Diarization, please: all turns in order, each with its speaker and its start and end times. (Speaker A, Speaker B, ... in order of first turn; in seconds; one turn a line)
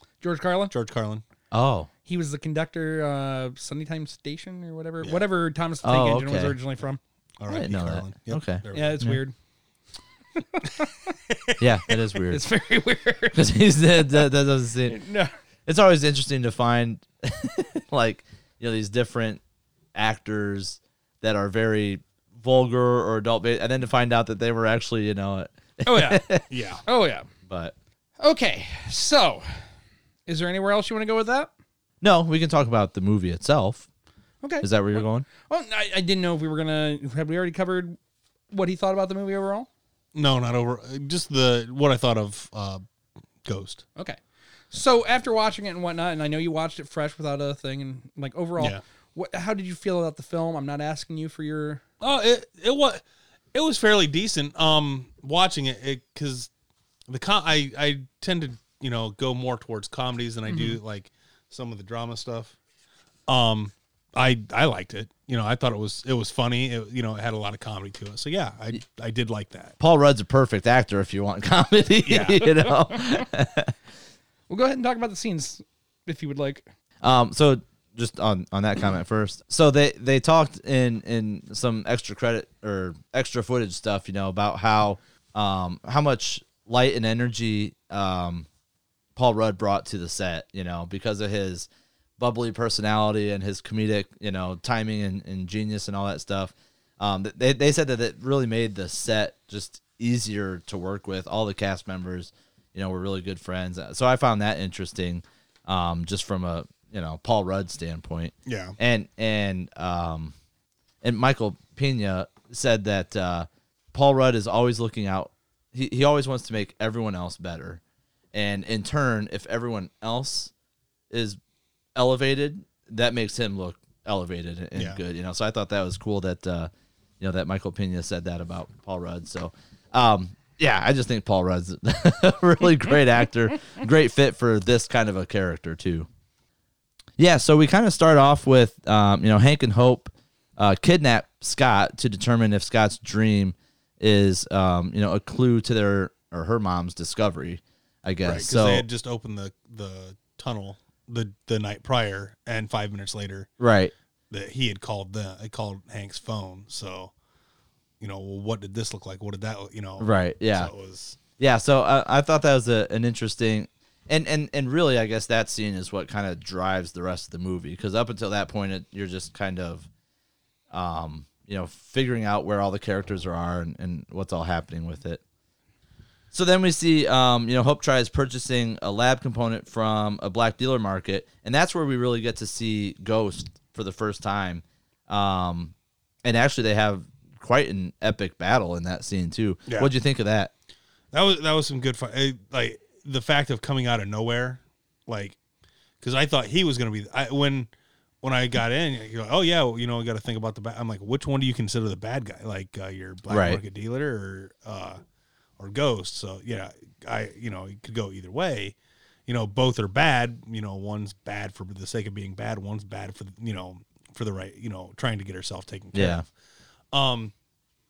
Speaker A: 0.2-0.7
Speaker B: 0.7-1.2
Speaker C: 1.5-1.9
Speaker A: 2.1-7.0
Speaker C: 5.8-6.6
Speaker B: 7.4-9.0
Speaker C: 7.5-9.2
Speaker A: 8.7-9.3
Speaker A: 10.5-11.1
Speaker C: 11.6-12.4
Speaker A: 12.3-13.4
Speaker C: 13.3-15.0
Speaker A: 14.8-15.3
Speaker C: 15.7-19.4
Speaker C: 19.9-26.4
Speaker A: 25.9-26.2
Speaker B: 26.5-26.8
Speaker A: 26.9-27.3
Speaker C: 27.5-27.7
Speaker A: 28.2-29.4
Speaker A: 30.3-31.5
Speaker C: 32.0-33.9
Speaker A: 34.4-34.7
Speaker C: 34.6-35.3
Speaker A: 35.4-38.0
Speaker A: 38.5-39.7
Speaker B: 40.1-42.8
Speaker B: 43.4-43.8
Speaker A: 44.7-51.8
Speaker B: 52.0-53.0
Speaker B: 53.5-56.5
Speaker B: 57.1-62.5
Speaker A: 60.5-60.8
Speaker B: 63.3-69.7
Speaker C: 69.8-73.7
Speaker B: 72.0-72.4
Speaker A: 74.5-76.7
Speaker C: 77.0-88.5
Speaker C: 89.2-110.3
Speaker B: 108.5-108.8
Speaker C: 111.0-117.8
Speaker C: 118.3-120.5
Speaker C: 121.1-121.4
Speaker C: 122.0-136.1
Speaker B: 124.7-125.0
Speaker C: 137.2-148.8
Speaker B: 148.2-153.5
Speaker C: 153.6-153.9
Speaker B: 154.3-157.1
Speaker B: 158.0-161.2
Speaker C: 160.0-160.7
Speaker C: 161.4-169.9
Speaker C: 170.7-175.2
Speaker C: 176.3-190.5
Speaker B: 189.7-189.9
Speaker B: 191.1-195.4
Speaker B: 196.0-197.7
Speaker B: 198.2-205.0
Speaker C: 203.3-203.6
Speaker B: 205.6-208.7
Speaker B: 209.3-216.2
Speaker C: 215.9-216.2
Speaker B: 216.9-217.3